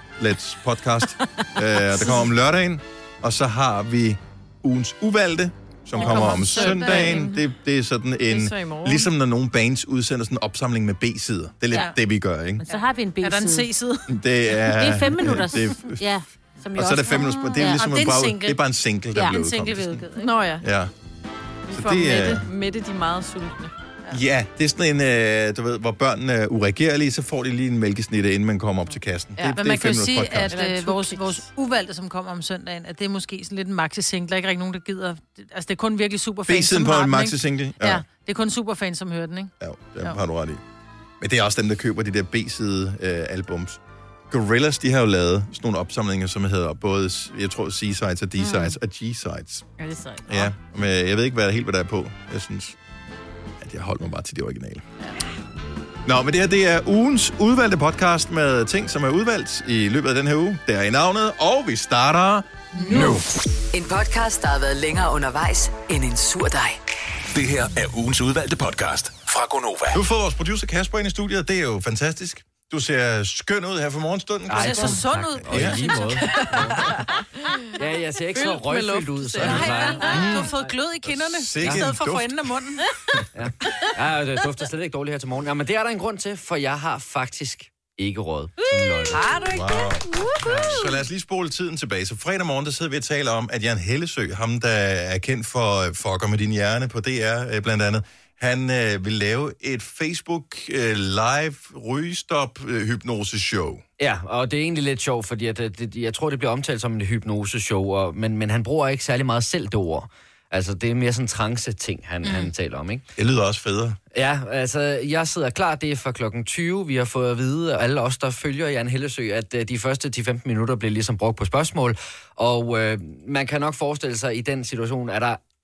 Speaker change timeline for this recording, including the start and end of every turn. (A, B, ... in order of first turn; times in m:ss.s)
0:00.2-0:12.6 A
0:05.9-0:07.3 B
0:06.2-0:07.5 C
0:08.3-0:09.1 C
0:11.7-0:12.0 B
0:12.6-0:13.7 D
0:12.7-0:14.1 B
0:14.1-0:16.0 A
0:14.6-0:18.6 D
0:16.7-0:20.0 A
0:19.1-0:20.3 D
0:20.1-0:20.6 C
0:20.6-0:20.9 A
0:21.7-0:23.7 C
0:21.7-0:22.5 A
0:24.1-0:30.6 A
0:29.5-0:40.2 B
0:30.5-0:31.5 C
0:36.5-0:38.0 A
0:39.6-0:40.6 A
0:41.2-0:49.7 A
0:48.4-0:48.8 D
0:49.8-0:50.5 D
0:50.3-0:52.8 A
0:53.6-0:54.8 A
0:56.0-1:03.3 A
1:02.8-1:03.2 B
1:02.9-1:03.2 E
1:03.0-1:03.2 F
1:03.7-1:06.8 E
1:07.3-1:10.0 F
1:09.9-1:15.9 A
1:14.5-1:17.1 G
1:14.6-1:16.6 B
1:16.3-1:17.5 C
1:17.7-1:20.7 G
1:18.3-1:19.8 C
1:19.4-1:22.9 B
1:19.7-1:20.2 D
1:20.1-1:20.5 A
1:21.0-1:23.2 A
1:21.6-1:21.9 G
1:23.3-1:29.4 G
1:28.6-1:29.7 D
1:29.1-1:30.4 C
1:29.5-1:30.0 A
1:30.4-1:30.8 G
1:30.6-1:43.8 A
1:44.0-1:53.0 G
1:52.2-1:52.5 B
1:53.2-1:54.0 A
1:54.1-2:05.4 G